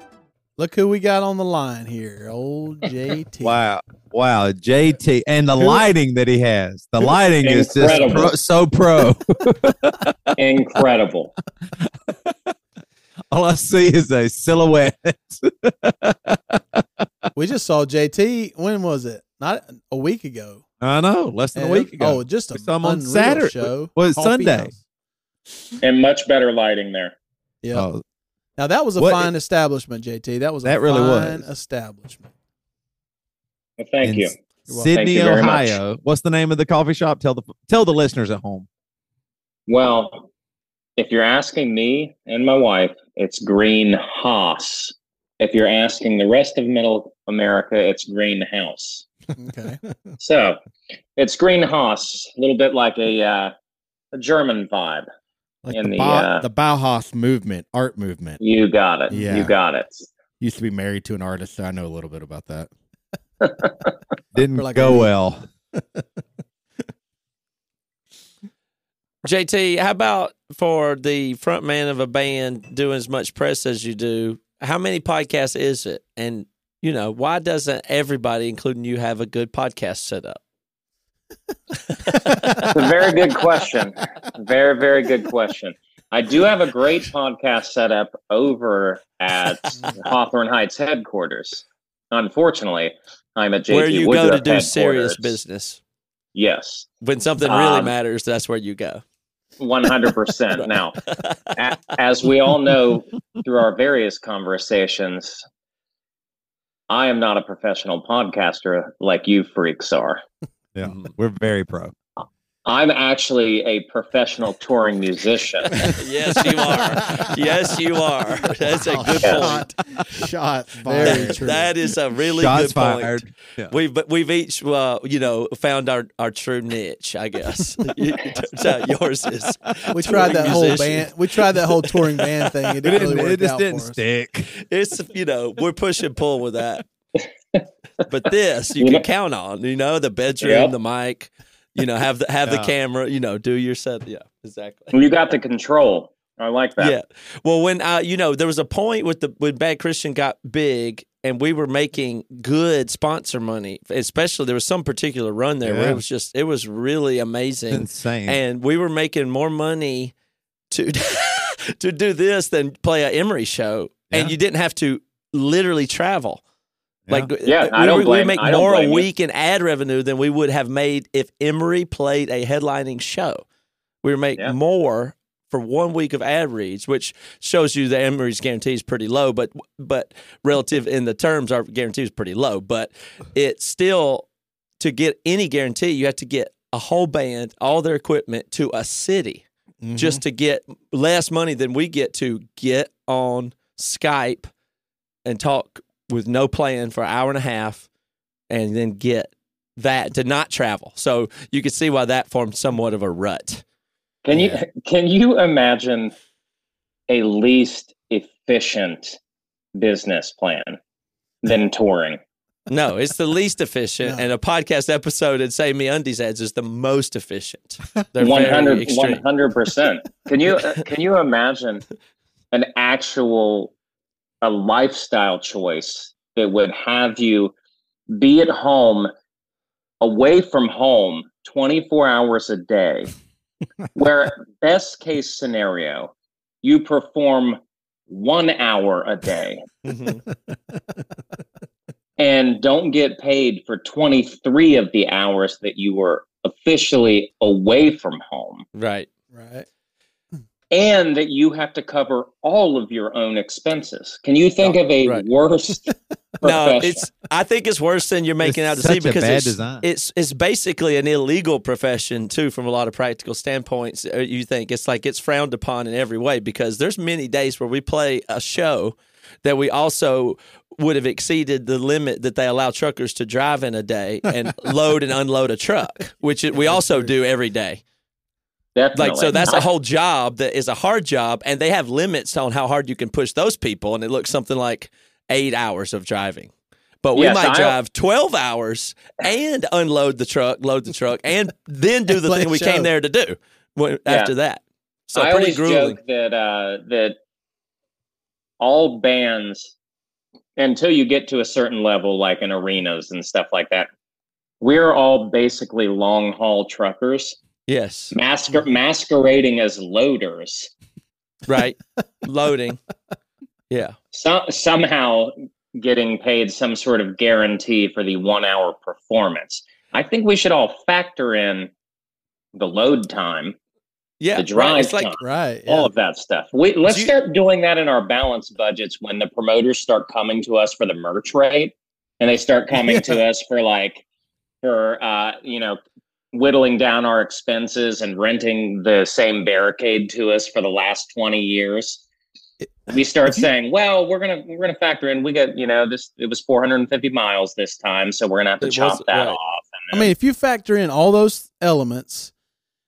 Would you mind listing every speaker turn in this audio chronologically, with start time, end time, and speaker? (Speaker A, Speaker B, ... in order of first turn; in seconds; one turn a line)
Speaker A: 0.6-3.5
Speaker B: 3.4-10.4
Speaker C: 7.4-8.3
Speaker C: 10.4-11.3
Speaker B: 11.8-12.5
Speaker B: 13.3-16.8
Speaker A: 17.3-20.6
Speaker B: 20.8-24.8
Speaker A: 21.5-24.7
Speaker C: 25.8-27.1
Speaker B: 27.7-28.0
Speaker A: 28.6-32.3
Speaker B: 29.0-29.3
Speaker B: 30.6-31.4
Speaker C: 33.8-34.3
Speaker B: 34.0-38.7
Speaker A: 34.7-34.9
Speaker C: 34.9-35.8
Speaker C: 39.7-40.3
Speaker C: 41.0-49.0
Speaker A: 49.4-49.8
Speaker C: 50.2-50.6
Speaker C: 51.1-53.5
Speaker C: 54.1-55.0
Speaker D: 55.6-58.4
Speaker C: 55.7-56.4
Speaker C: 58.4-60.1
Speaker D: 59.1-59.5
Speaker D: 60.4-62.7
Speaker C: 63.4-63.9
Speaker B: 64.3-65.5
Speaker A: 64.5-65.1
Speaker E: 69.2-80.4
Speaker E: 82.0-82.3
Speaker C: 82.7-95.4
Speaker E: 93.7-95.8
Speaker C: 96.3-96.9
Speaker E: 97.0-99.0
Speaker C: 97.4-97.9
Speaker C: 99.6-101.0
Speaker E: 100.5-101.6
Speaker C: 101.5-105.4
Speaker C: 106.9-110.2
Speaker B: 110.7-111.9
Speaker E: 110.8-111.1
Speaker C: 112.6-115.9
Speaker E: 116.0-119.7
Speaker D: 118.8-121.7
Speaker C: 119.2-119.5
Speaker A: 120.8-121.7
Speaker E: 121.0-131.1
Speaker B: 122.3-123.7
Speaker B: 129.7-129.9
Speaker A: 129.9-134.0
Speaker B: 132.8-134.5
Speaker E: 134.6-136.8
Speaker C: 137.2-137.7
Speaker E: 138.1-144.9
Speaker C: 138.8-139.0
Speaker C: 140.4-140.7
Speaker B: 142.4-142.7
Speaker C: 144.9-146.9
Speaker E: 146.8-160.1
Speaker B: 155.6-156.0
Speaker B: 157.7-158.4
Speaker E: 160.7-166.4
Speaker B: 164.1-164.3
Speaker E: 167.1-173.4
Speaker C: 167.4-169.1
Speaker E: 174.0-184.3
Speaker E: 184.8-189.4
Speaker D: 189.8-190.2
Speaker E: 189.9-194.5
Speaker E: 195.2-197.9
Speaker E: 198.5-203.6
Speaker C: 204.2-206.1
Speaker B: 204.3-204.6
Speaker C: 207.1-209.2
Speaker C: 209.7-210.8
Speaker C: 211.4-212.2
Speaker E: 212.7-219.2
Speaker C: 218.2-221.8
Speaker C: 222.5-223.7
Speaker C: 224.4-227.5
Speaker C: 228.1-229.1
Speaker C: 230.0-233.1
Speaker C: 233.9-236.1
Speaker C: 236.6-239.7
Speaker E: 239.8-240.2
Speaker C: 242.2-248.7
Speaker E: 248.7-249.1
Speaker A: 249.3-249.7
Speaker C: 250.7-257.1
Speaker E: 254.6-255.2
Speaker E: 256.4-277.8
Speaker B: 258.4-259.8
Speaker C: 278.7-279.6
Speaker E: 278.9-286.5
Speaker E: 287.0-296.0
Speaker C: 287.1-287.7
Speaker A: 292.2-292.9
Speaker C: 294.1-294.3
Speaker C: 295.1-297.2
Speaker C: 298.6-299.7
Speaker C: 300.6-303.9
Speaker C: 304.6-307.4
Speaker E: 307.7-308.1
Speaker C: 308.1-310.7
Speaker E: 311.5-312.8
Speaker E: 313.7-313.9
Speaker C: 314.1-321.7
Speaker C: 322.5-323.6
Speaker E: 324.2-325.2
Speaker C: 324.4-334.0
Speaker A: 325.2-325.9
Speaker E: 326.9-327.1
Speaker C: 334.6-335.8
Speaker C: 336.3-342.0
Speaker C: 342.9-350.1
Speaker E: 348.6-349.4
Speaker A: 349.9-352.3